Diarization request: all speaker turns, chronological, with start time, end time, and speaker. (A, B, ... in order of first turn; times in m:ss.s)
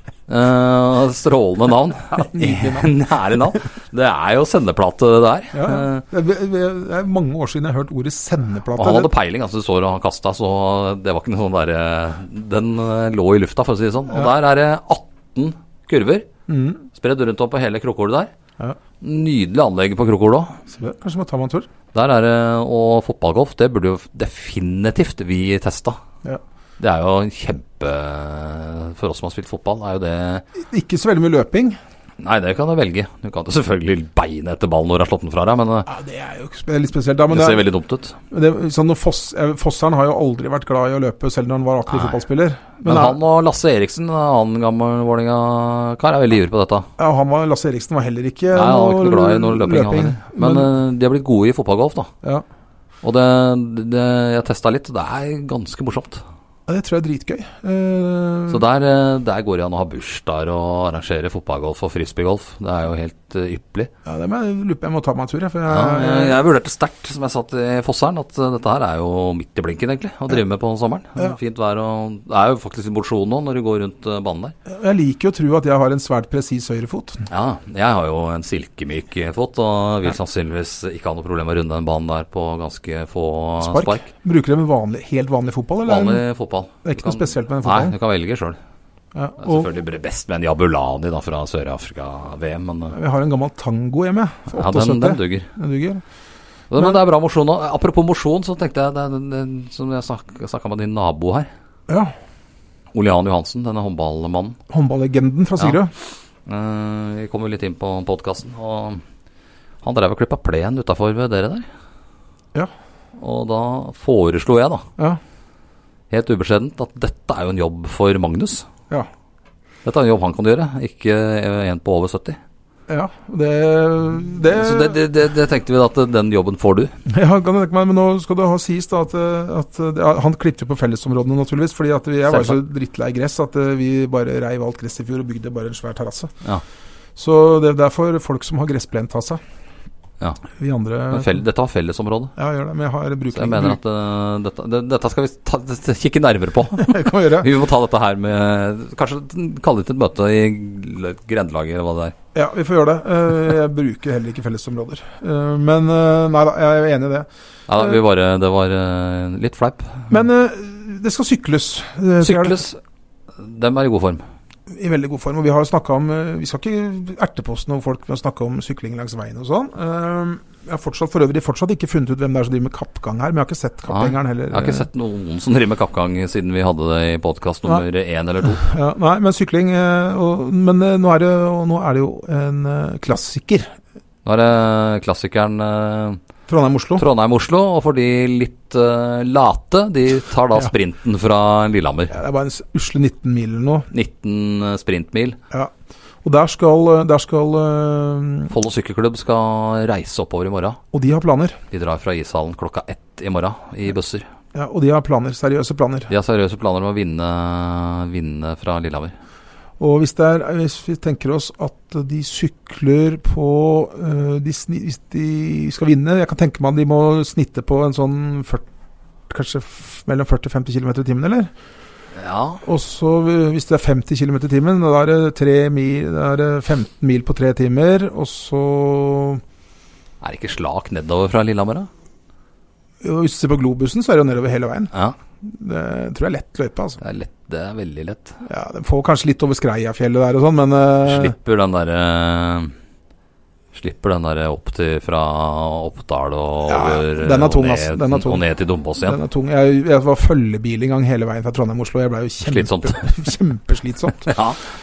0:00.3-0:06.0 A
0:02.1-0:02.9 B
0:05.5-0:09.1 B
0:08.8-0:16.3 A
0:16.5-0:16.8 B
0:16.9-0:18.3 A
0:19.0-0:20.6 A
0:20.7-0:21.7 B
0:21.9-0:26.0 A
0:26.8-0:30.4 A
0:30.6-0:31.8 B
0:32.2-0:35.9 A
0:35.9-0:37.7 B
0:37.3-0:38.2 A
0:38.3-0:43.2 B
0:41.9-0:42.2 A
0:42.8-0:46.9 A
0:47.0-0:50.7 B
0:48.5-0:52.1 A
0:53.0-0:56.2 A
0:56.7-0:58.6 B
0:58.5-1:03.9 A
1:04.0-1:06.4 B
1:05.7-1:14.5 A
1:14.7-1:17.2 B
1:17.3-1:24.1 A
1:23.6-1:26.2 B
1:25.8-1:28.6 A
1:26.8-1:28.0 B
1:29.1-1:29.7 B
1:29.4-1:33.0 A
1:32.9-1:36.0 B
1:34.5-1:35.5 A
1:36.7-1:41.5 A
1:41.9-1:42.1 B
1:42.9-1:44.6 A
1:44.7-1:45.9 B
1:46.4-1:49.0 A
1:49.8-1:51.7 A
1:53.2-1:54.9 A
1:56.1-1:58.7 A
1:59.8-2:02.4 A
2:02.9-2:05.0 B
2:04.5-2:06.9 A
2:07.1-2:16.3 B
2:12.3-2:12.6 A
2:17.2-2:19.4 B
2:20.5-2:21.4 B
2:21.1-2:22.3 A
2:22.4-2:23.8 B
2:23.3-2:32.1 A
2:26.8-2:27.5 B
2:32.3-2:38.0 B
2:37.7-2:40.1 A
2:40.1-2:42.6 B
2:42.2-2:42.8 A
2:43.4-2:44.2 A
2:44.7-2:54.9 B
2:53.9-2:58.7 A
2:58.4-3:03.7 B
3:04.2-3:06.2 A
3:06.5-3:07.0 B
3:07.0-3:12.2 A
3:12.1-3:13.9 B
3:13.9-3:15.4 A
3:16.2-3:18.5 B
3:18.5-3:20.8 A
3:20.9-3:21.6 B
3:21.7-3:24.3 A
3:24.5-3:26.1 B
3:26.1-3:29.1 A
3:29.8-3:38.6 B
3:39.3-3:41.5 B
3:42.1-3:42.6 A
3:42.6-3:49.4 B
3:50.2-3:51.9 A
3:53.0-3:57.0 B
3:57.0-3:58.4 A
3:58.4-4:01.3 B
4:01.0-4:02.7 A
4:03.7-4:09.2 A
4:06.7-4:08.4 B
4:09.0-4:14.3 B
4:12.4-4:13.1 A
4:14.2-4:14.6 A